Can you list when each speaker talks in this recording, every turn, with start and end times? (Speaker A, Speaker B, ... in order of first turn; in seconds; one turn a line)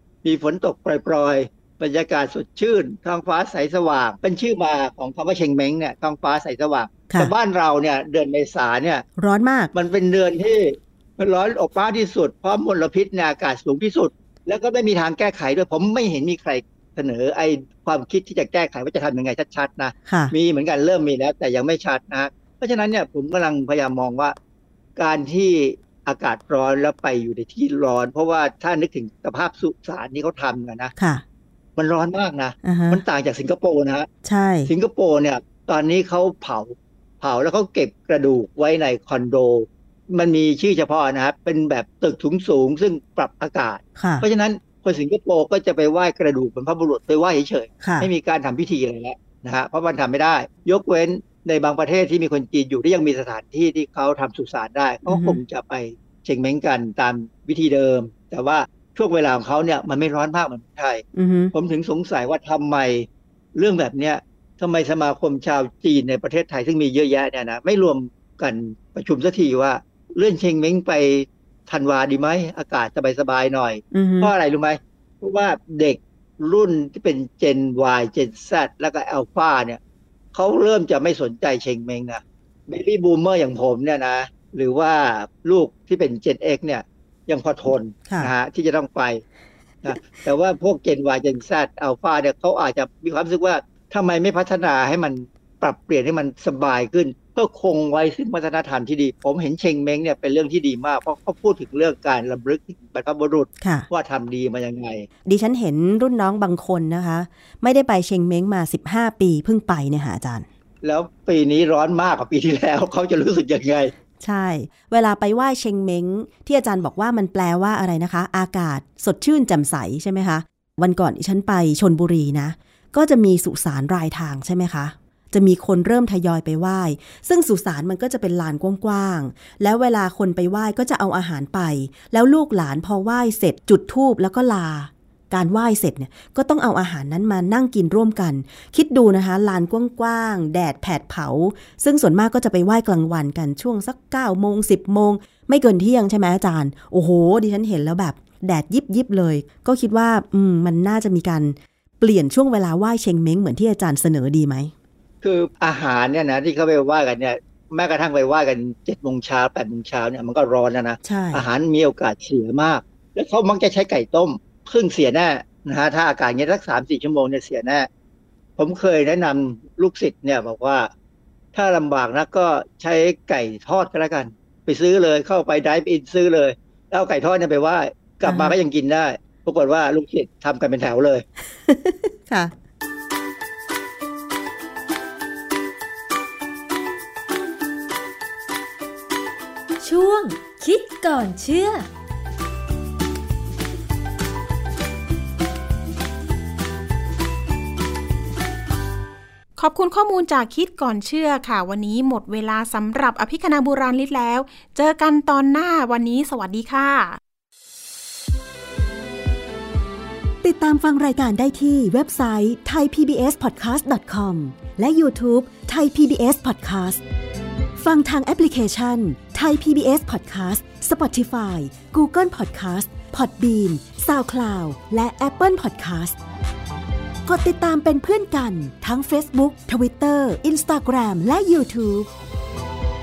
Speaker A: 0.2-9.0
Speaker B: 7.1-7.3
Speaker B: 9.2-9.7
Speaker A: 9.7-24.4
Speaker B: 20.1-20.3
Speaker A: 25.0-30.9
Speaker B: 31.0-31.2
Speaker A: 31.8-34.1
Speaker B: 32.6-33.0
Speaker B: 34.2-34.7
Speaker A: 34.7-79.8
Speaker B: 44.0-44.3
Speaker B: 47.8-48.1
Speaker B: 55.1-55.4
Speaker B: 61.1-61.5
Speaker B: 73.9-74.3
Speaker A: 80.3-89.2
Speaker B: 88.0-88.3
Speaker A: 89.8-105.1
Speaker B: 103.6-103.9
Speaker B: 105.2-110.5
Speaker A: 110.8-113.9
Speaker B: 114.2-154.7
Speaker A: 155.2-167.9
Speaker B: 161.0-161.4
Speaker A: 168.6-170.9
Speaker A: 171.5-181.2
Speaker B: 178.3-178.5
Speaker B: 181.7-182.5
Speaker C: 189.8-191.9
Speaker D: 199.6-207.2
Speaker B: 210.4-217.0
Speaker B: 217.8-226.2
Speaker B: 227.3-232.1